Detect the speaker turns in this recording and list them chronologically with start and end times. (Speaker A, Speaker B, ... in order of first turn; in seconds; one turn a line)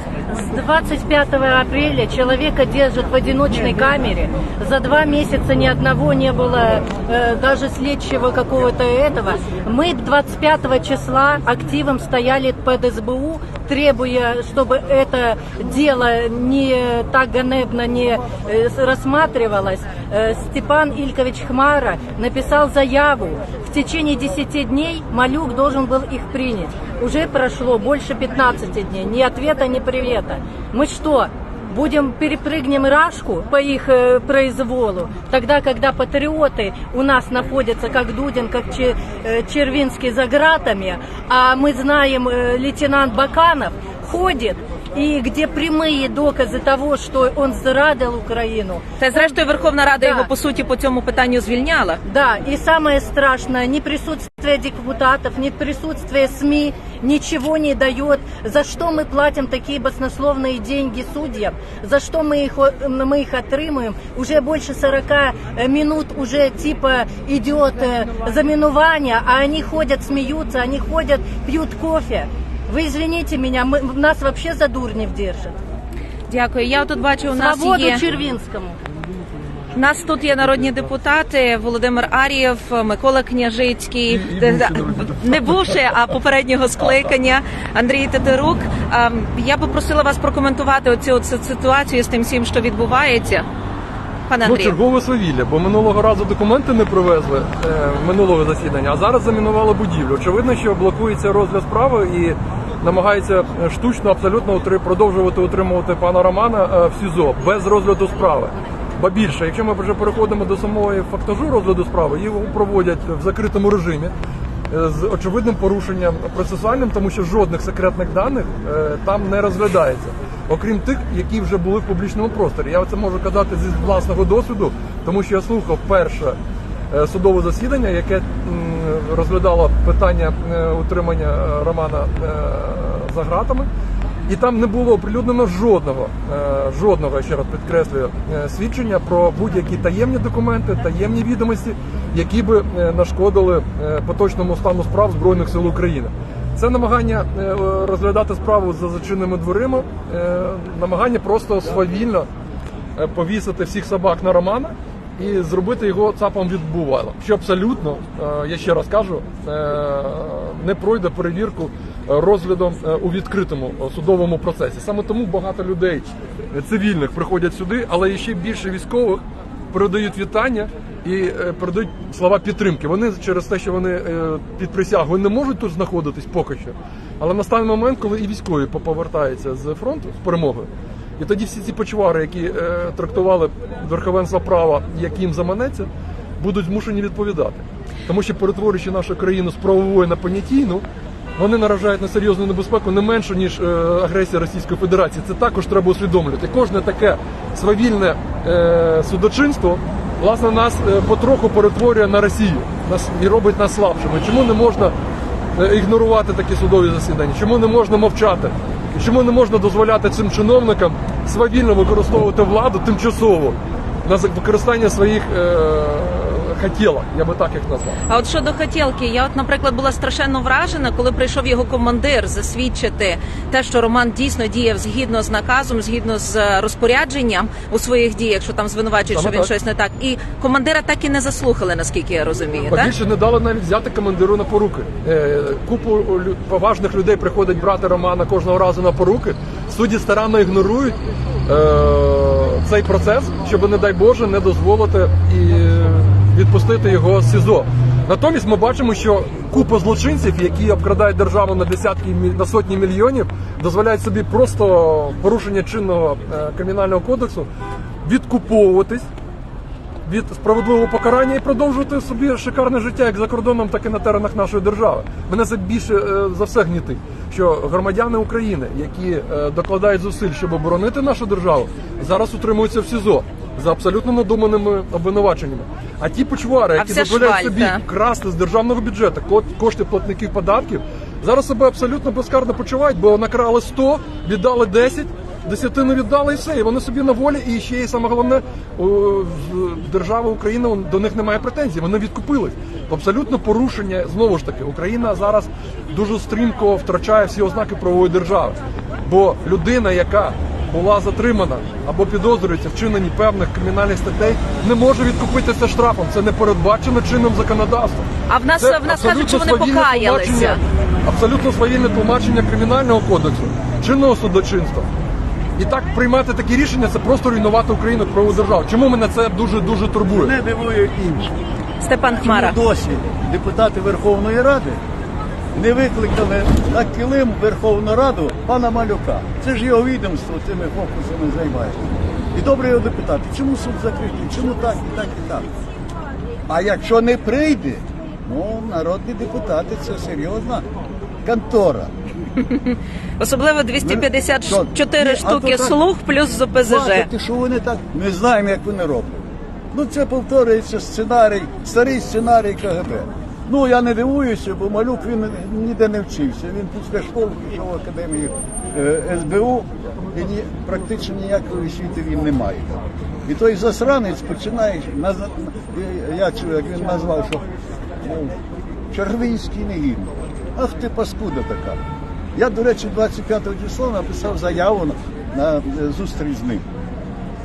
Speaker A: 0.3-49.4
Speaker B: 49.0-52.0
Speaker A: 50.0-50.3
Speaker A: 52.0-75.6
Speaker B: 76.3-78.0
Speaker A: 77.3-78.8
Speaker B: 79.8-93.5
Speaker C: 84.1-85.8
Speaker B: 94.3-94.8
Speaker C: 94.4-114.1
Speaker C: 114.7-126.4
Speaker C: 126.9-133.7
Speaker C: 134.3-152.3
Speaker C: 153.0-190.8
Speaker C: 191.4-204.9
Speaker C: 205.6-218.0
Speaker B: 218.1-232.9
Speaker C: 229.1-229.5
Speaker C: 232.7-257.5
Speaker C: 258.0-259.1
Speaker C: 260.1-314.9
Speaker B: 276.8-277.8
Speaker B: 308.3-310.6
Speaker C: 315.6-320.3
Speaker D: 320.1-321.3
Speaker B: 321.8-322.6
Speaker D: 322.2-324.8
Speaker D: 325.6-335.5
Speaker D: 336.5-340.6
Speaker D: 341.2-341.9
Speaker B: 342.4-347.1
Speaker D: 343.8-345.8
Speaker D: 346.6-367.5
Speaker D: 368.0-368.4
Speaker D: 368.9-371.8
Speaker D: 372.4-376.6